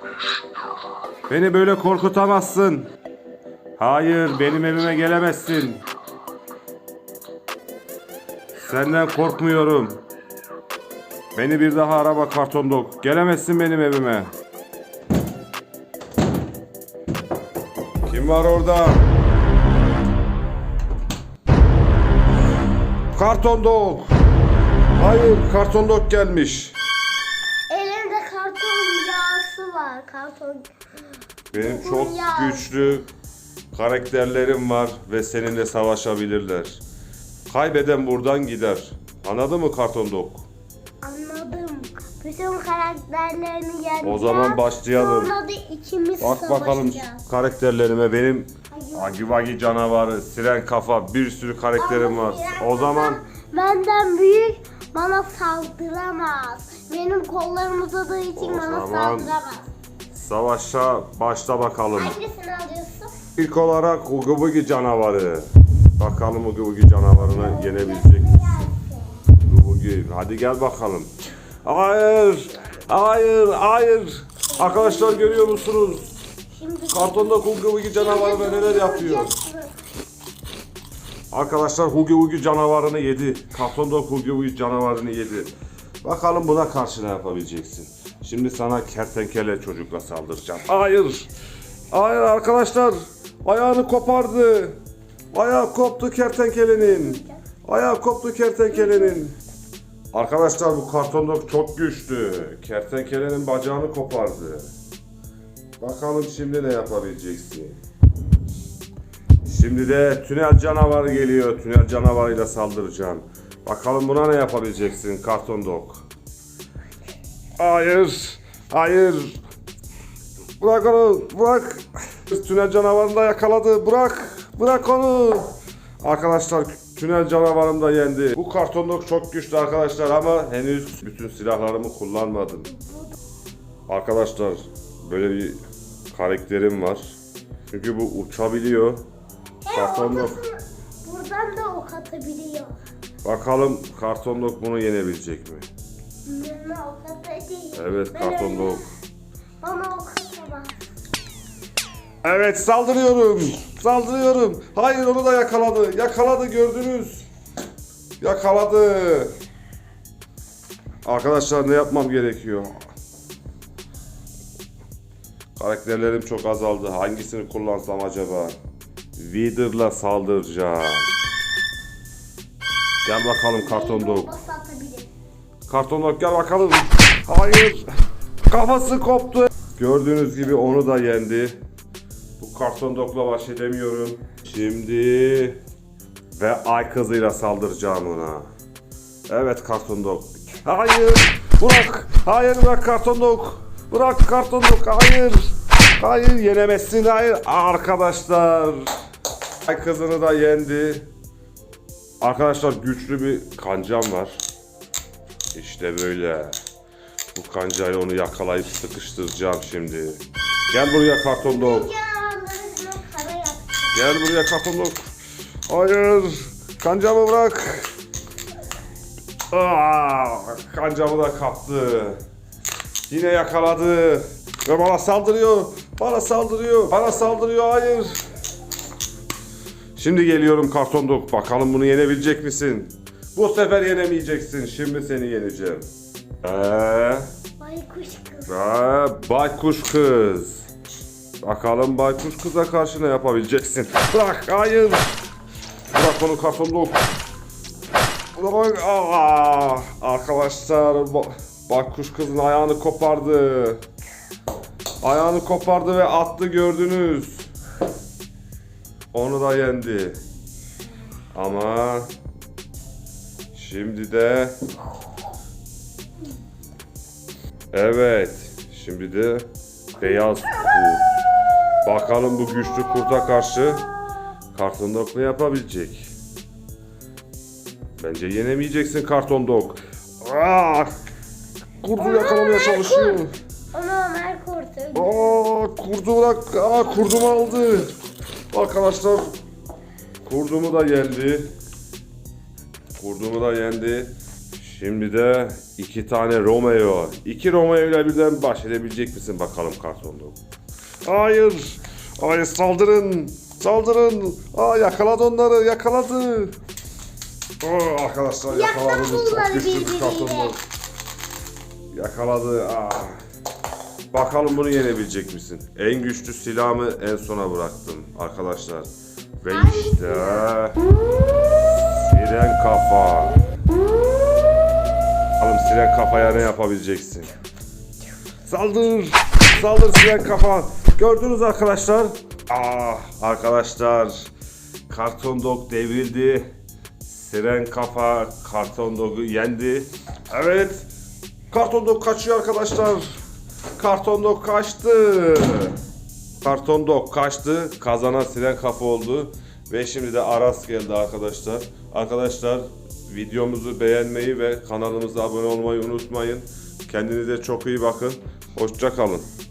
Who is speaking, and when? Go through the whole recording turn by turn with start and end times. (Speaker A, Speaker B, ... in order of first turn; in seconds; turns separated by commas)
Speaker A: 1.3-2.9, Speaker A: 3.8-5.8, Speaker A: 8.6-10.0, Speaker A: 11.3-14.3, Speaker A: 18.1-19.1, Speaker A: 23.1-24.1, Speaker A: 25.0-26.8, Speaker B: 27.7-30.7, Speaker A: 31.5-33.1, Speaker B: 31.5-33.0, Speaker A: 33.7-36.8, Speaker A: 37.5-40.4, Speaker B: 41.0-47.2, Speaker A: 44.0-45.3, Speaker A: 46.2-53.2, Speaker B: 48.7-49.2, Speaker B: 51.8-59.7, Speaker A: 58.4-59.3, Speaker A: 60.1-62.2, Speaker B: 61.9-63.1, Speaker A: 63.4-68.4, Speaker B: 67.3-69.2, Speaker A: 69.5-71.1, Speaker A: 71.6-76.0, Speaker B: 74.5-75.9, Speaker B: 76.6-79.7, Speaker A: 76.9-79.3, Speaker A: 81.3-85.5, Speaker A: 86.0-91.3, Speaker A: 91.9-94.8, Speaker A: 95.3-99.4, Speaker B: 96.8-97.4, Speaker B: 98.8-99.2, Speaker A: 100.1-104.7, Speaker A: 105.8-107.8, Speaker A: 109.4-116.0, Speaker A: 117.6-119.4, Speaker A: 120.6-132.7, Speaker B: 132.7-133.1, Speaker A: 133.9-137.2, Speaker A: 137.7-139.0, Speaker B: 139.6-142.8, Speaker A: 139.7-140.4, Speaker A: 143.2-145.7, Speaker B: 146.3-148.9, Speaker A: 147.7-148.8, Speaker B: 149.6-150.8, Speaker A: 152.2-157.3, Speaker A: 158.2-159.3, Speaker A: 161.1-162.7, Speaker A: 165.6-168.5, Speaker A: 169.2-171.1, Speaker A: 173.0-174.3, Speaker B: 173.6-175.1, Speaker A: 175.7-177.9, Speaker A: 178.5-181.6, Speaker A: 182.4-185.6, Speaker A: 186.3-188.5, Speaker A: 189.3-198.9, Speaker A: 199.7-201.1, Speaker A: 202.2-204.4, Speaker A: 205.5-206.6, Speaker A: 207.3-211.9, Speaker B: 211.4-213.9, Speaker A: 213.9-215.1, Speaker A: 215.7-217.9, Speaker A: 219.5-222.2, Speaker A: 223.1-228.2, Speaker A: 230.0-235.9, Speaker A: 236.4-237.3, Speaker B: 237.6-238.5, Speaker A: 238.5-240.7, Speaker A: 241.4-245.1, Speaker A: 245.9-247.1, Speaker A: 248.3-253.8, Speaker A: 255.0-257.5, Speaker A: 259.1-260.2, Speaker A: 261.3-262.1, Speaker A: 263.5-264.6, Speaker A: 267.7-271.1, Speaker A: 271.8-273.9, Speaker A: 274.5-276.1, Speaker A: 278.0-280.9, Speaker A: 281.8-283.3, Speaker B: 282.0-285.4, Speaker A: 284.9-287.9, Speaker A: 288.5-289.3, Speaker A: 290.2-291.5, Speaker A: 293.0-300.4, Speaker A: 301.1-306.5, Speaker A: 307.6-310.6, Speaker B: 308.5-310.6, Speaker A: 311.9-313.2, Speaker A: 314.1-318.9, Speaker A: 319.4-320.8, Speaker B: 319.5-320.5, Speaker A: 321.9-323.4, Speaker A: 325.4-327.3, Speaker A: 328.5-334.3, Speaker A: 334.9-336.5, Speaker A: 337.1-340.9, Speaker A: 341.5-343.2, Speaker A: 343.8-345.8, Speaker A: 346.4-359.3